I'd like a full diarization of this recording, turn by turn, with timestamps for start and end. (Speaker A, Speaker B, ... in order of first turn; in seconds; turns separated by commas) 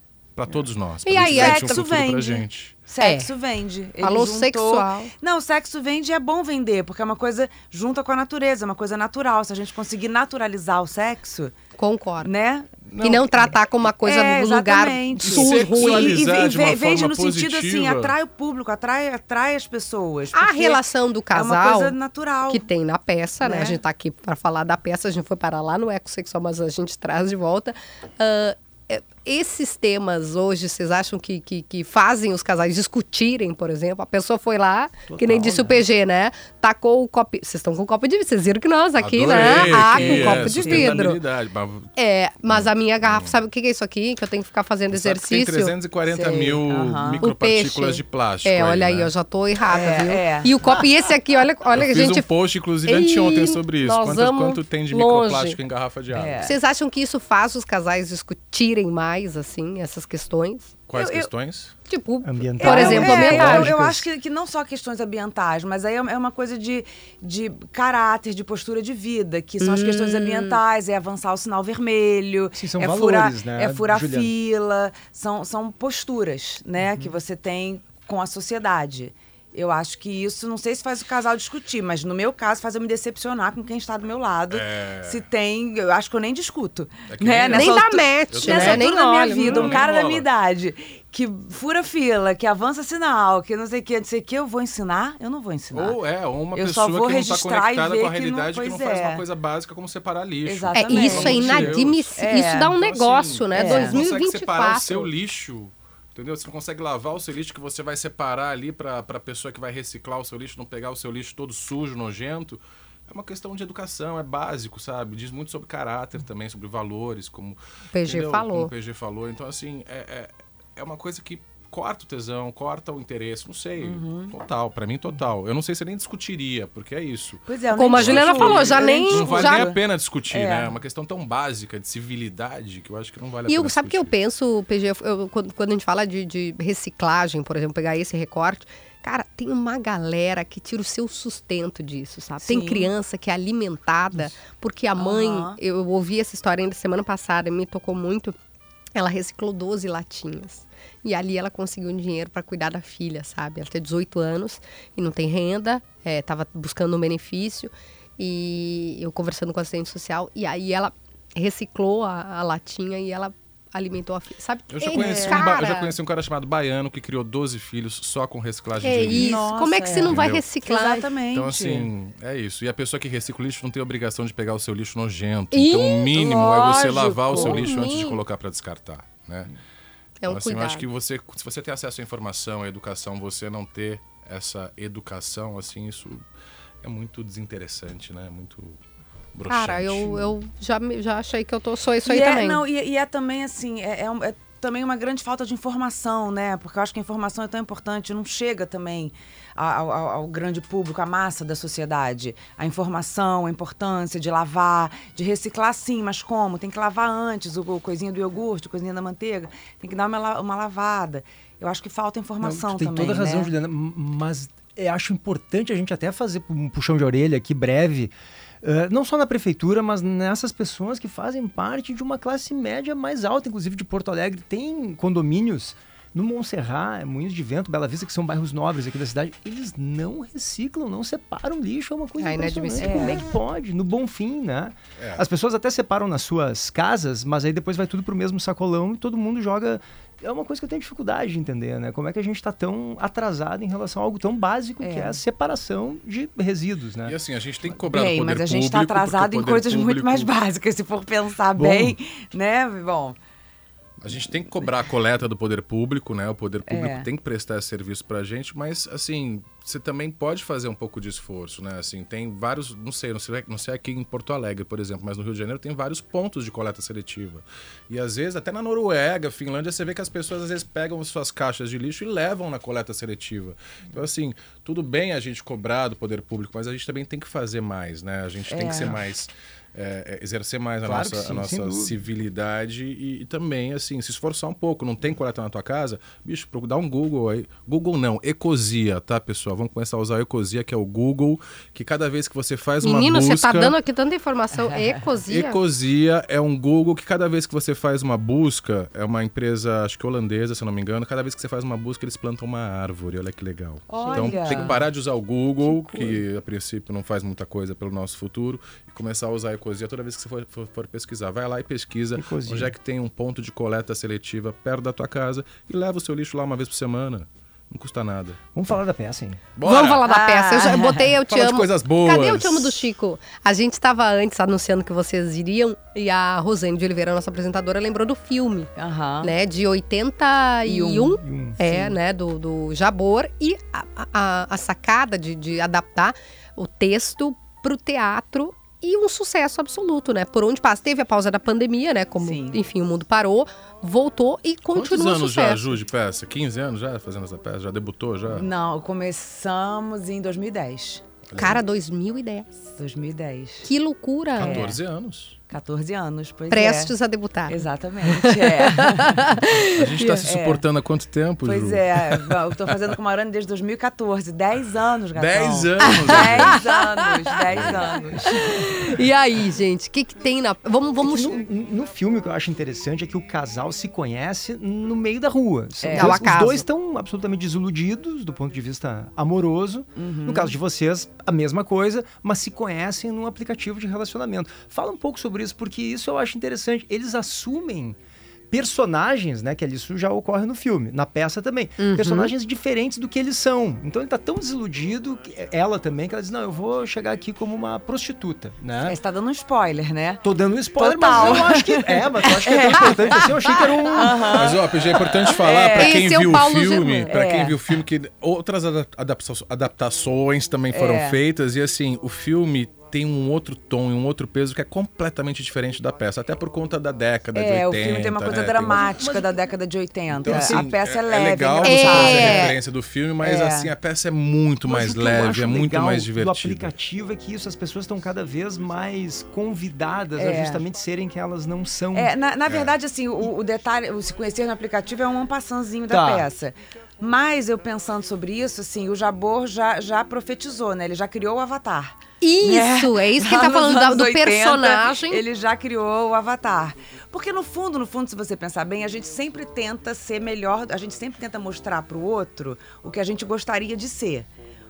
Speaker A: 0.3-2.9, Speaker B: 1.0-1.8, Speaker C: 1.2-11.5, Speaker B: 3.0-3.3, Speaker B: 4.0-5.1, Speaker B: 11.8-12.3, Speaker C: 12.2-12.7, Speaker A: 12.8-13.7, Speaker B: 13.0-16.2, Speaker C: 14.0-22.7, Speaker A: 15.2-18.1, Speaker B: 20.3-22.0, Speaker B: 22.5-41.2, Speaker C: 23.4-23.8, Speaker D: 35.1-35.8, Speaker A: 39.0-41.9, Speaker C: 39.2-40.9, Speaker B: 42.0-45.7, Speaker A: 42.5-43.4, Speaker A: 44.9-49.1, Speaker C: 46.0-47.2, Speaker B: 47.2-52.3, Speaker C: 49.7-50.9, Speaker A: 51.7-56.5, Speaker B: 52.8-55.6, Speaker C: 56.1-56.5, Speaker B: 56.4-60.7, Speaker A: 60.9-61.7, Speaker C: 61.0-61.3, Speaker B: 61.9-63.7, Speaker D: 62.2-64.1, Speaker C: 62.6-96.0, Speaker A: 62.8-63.5, Speaker B: 69.6-70.6, Speaker D: 72.5-74.3, Speaker A: 84.5-85.3, Speaker A: 87.0-90.3, Speaker B: 87.5-89.8, Speaker A: 95.7-134.1, Speaker C: 96.5-99.2, Speaker C: 100.4-102.7, Speaker B: 100.7-105.1, Speaker C: 103.5-104.0, Speaker B: 117.9-118.7, Speaker C: 123.8-124.3, Speaker C: 127.5-130.8, Speaker B: 127.7-129.7, Speaker B: 133.4-148.3, Speaker C: 142.4-142.9, Speaker C: 145.0-145.6, Speaker B: 148.9-165.9, Speaker A: 164.7-169.4, Speaker C: 164.9-165.4, Speaker B: 168.8-171.1, Speaker C: 169.1-171.9, Speaker A: 170.0-170.6, Speaker A: 171.2-179.5, Speaker B: 175.5-176.1, Speaker C: 176.1-177.7, Speaker B: 177.3-178.2, Speaker B: 180.2-180.9, Speaker A: 180.2-186.2, Speaker A: 186.8-188.8, Speaker A: 189.3-190.3, Speaker B: 189.5-192.6, Speaker C: 192.0-213.5, Speaker D: 212.4-247.2, Speaker B: 232.2-233.1, Speaker C: 232.8-233.2, Speaker A: 235.0-235.3, Speaker C: 244.8-245.2, Speaker A: 247.0-250.3, Speaker C: 247.9-253.2, Speaker D: 251.6-252.0, Speaker A: 254.0-293.7, Speaker C: 256.7-257.1, Speaker C: 278.5-279.0, Speaker D: 280.8-282.0, Speaker B: 292.8-295.6, Speaker C: 294.5-295.2, Speaker A: 295.3-318.4, Speaker C: 303.9-304.9, Speaker D: 304.1-304.8, Speaker D: 305.6-306.2, Speaker D: 312.1-312.7, Speaker D: 318.5-319.4, Speaker A: 319.6-320.1, Speaker B: 319.6-328.7, Speaker C: 320.1-321.1, Speaker A: 321.2-322.8, Speaker C: 328.8-329.3, Speaker B: 329.2-345.7, Speaker C: 330.7-331.1, Speaker D: 330.7-331.9, Speaker C: 342.2-342.6, Speaker A: 344.7-348.5, Speaker C: 348.3-351.1, Speaker A: 351.3-351.6, Speaker B: 351.4-352.5, Speaker C: 352.8-353.7, Speaker B: 353.6-354.7, Speaker A: 354.4-355.4, Speaker C: 354.4-354.8, Speaker C: 355.5-356.9, Speaker B: 356.5-360.3, Speaker C: 357.5-359.3, Speaker A: 359.8-362.9, Speaker C: 360.2-360.6, Speaker C: 361.4-368.1, Speaker A: 365.1-366.6, Speaker B: 365.8-366.8, Speaker A: 367.5-367.8, Speaker D: 367.7-368.7, Speaker B: 368.2-371.4, Speaker D: 371.0-388.0, Speaker C: 375.8-376.3, Speaker B: 375.9-376.6, Speaker C: 379.9-380.5, Speaker D: 388.5-399.0, Speaker B: 391.8-392.3, Speaker C: 398.8-400.2, Speaker D: 400.2-404.4, Speaker C: 400.7-406.0, Speaker A: 401.1-401.4, Speaker B: 402.8-404.0, Speaker A: 404.4-419.1, Speaker B: 405.7-407.2, Speaker C: 407.1-407.6, Speaker C: 410.7-411.2, Speaker C: 417.3-422.6, Speaker D: 418.7-419.5, Speaker A: 420.1-426.7, Speaker D: 420.1-420.8, Speaker B: 421.6-422.6, Speaker C: 423.2-423.7, Speaker D: 424.6-432.1, Speaker C: 430.1-430.6, Speaker C: 431.9-454.3, Speaker A: 432.5-432.8, Speaker D: 435.9-436.3, Speaker B: 442.2-445.2